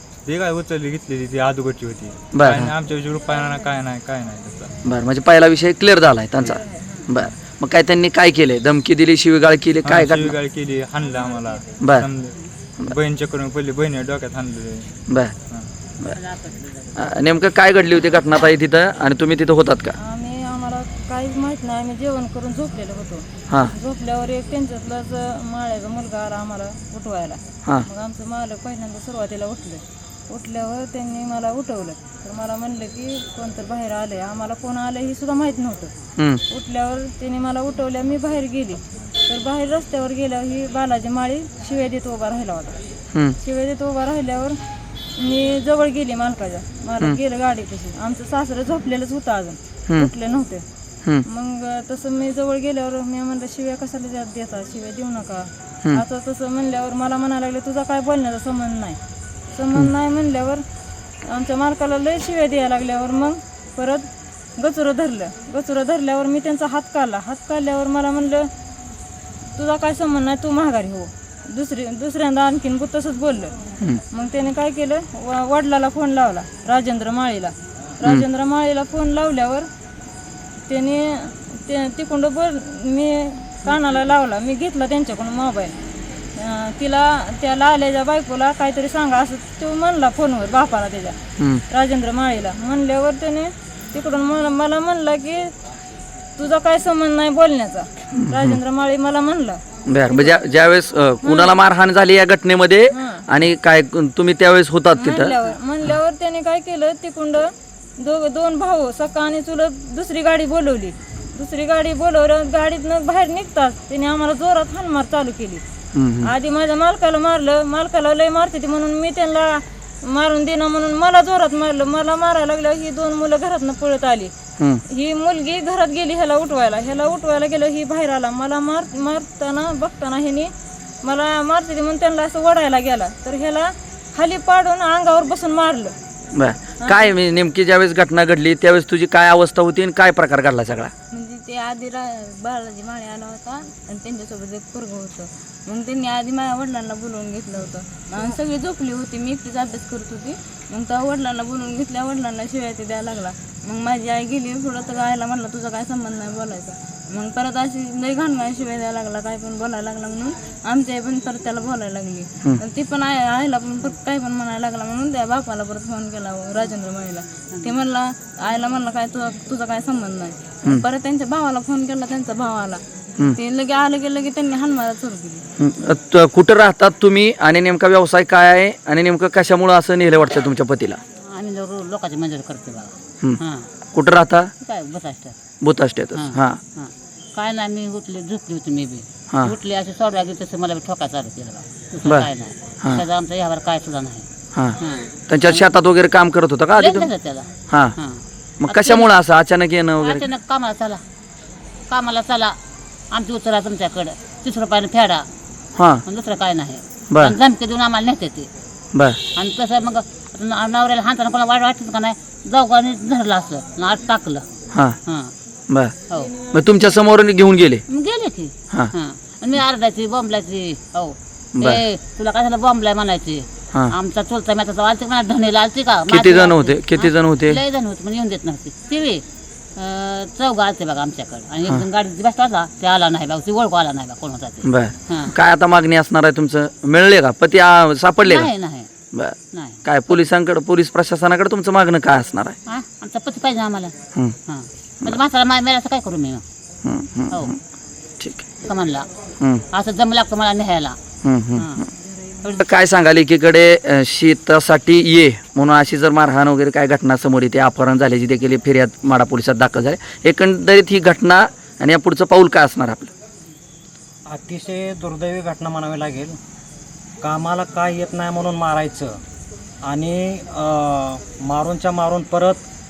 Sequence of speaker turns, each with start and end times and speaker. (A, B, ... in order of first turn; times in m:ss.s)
0:00.2-0:04.7 A
0:02.3-0:02.7 B
0:04.8-0:10.3 B
0:09.8-0:14.9 A
0:15.1-0:15.3 B
0:16.0-0:17.0 C
0:17.0-0:19.9 B
0:20.0-0:35.9 D
0:36.2-0:36.4 B
0:36.5-0:42.8 D
0:43.4-0:44.6 D
0:45.2-0:50.6 D
0:51.3-0:59.0 D
0:59.5-1:00.6 D
1:01.3-1:08.5 D
1:09.6-1:13.5 D
1:14.1-1:19.7 D
1:20.7-1:25.7 D
1:26.3-1:31.2 D
1:31.7-1:35.5 D
1:36.4-1:40.3 D
1:38.1-1:38.6 B
1:39.9-1:45.3 B
1:41.2-1:41.5 D
1:42.9-1:43.2 D
1:45.0-1:55.6 D
1:55.9-1:56.3 B
1:56.2-2:04.3 D
2:04.9-2:10.5 D
2:11.0-2:15.9 D
2:16.3-2:20.9 B
2:16.8-2:17.1 D
2:21.1-2:52.8 E
2:53.3-2:55.4 E
2:55.6-3:01.0 B
3:01.3-3:03.6 C
3:03.9-3:04.5 B
3:04.6-3:05.3 C
3:05.6-3:06.6 B
3:06.1-3:14.2 C
3:14.8-3:15.7 C
3:15.3-3:17.1 B
3:16.8-3:19.1 C
3:17.7-3:17.9 B
3:18.6-3:20.3 B
3:20.0-3:21.0 C
3:21.9-3:22.5 C
3:23.1-3:25.2 C
3:25.8-3:26.0 B
3:26.0-3:28.5 C
3:29.4-3:34.4 C
3:35.0-3:35.3 C
3:36.1-3:36.4 C
3:36.5-3:37.8 B
3:37.9-3:49.2 C
3:41.6-3:41.8 B
3:46.1-3:47.6 B
3:49.8-3:55.3 C
3:54.6-3:58.5 B
3:58.2-3:58.9 C
3:59.1-4:02.6 B
3:59.5-4:00.2 C
4:02.7-4:03.9 C
4:04.5-4:06.4 C
4:06.8-4:07.6 B
4:08.2-4:08.5 B
4:08.6-4:09.0 C
4:09.7-4:11.0 C
4:11.2-4:11.7 B
4:11.6-4:11.9 C
4:12.6-4:23.1 B
4:24.3-4:26.3 F
4:27.2-4:29.2 F
4:29.8-4:32.6 F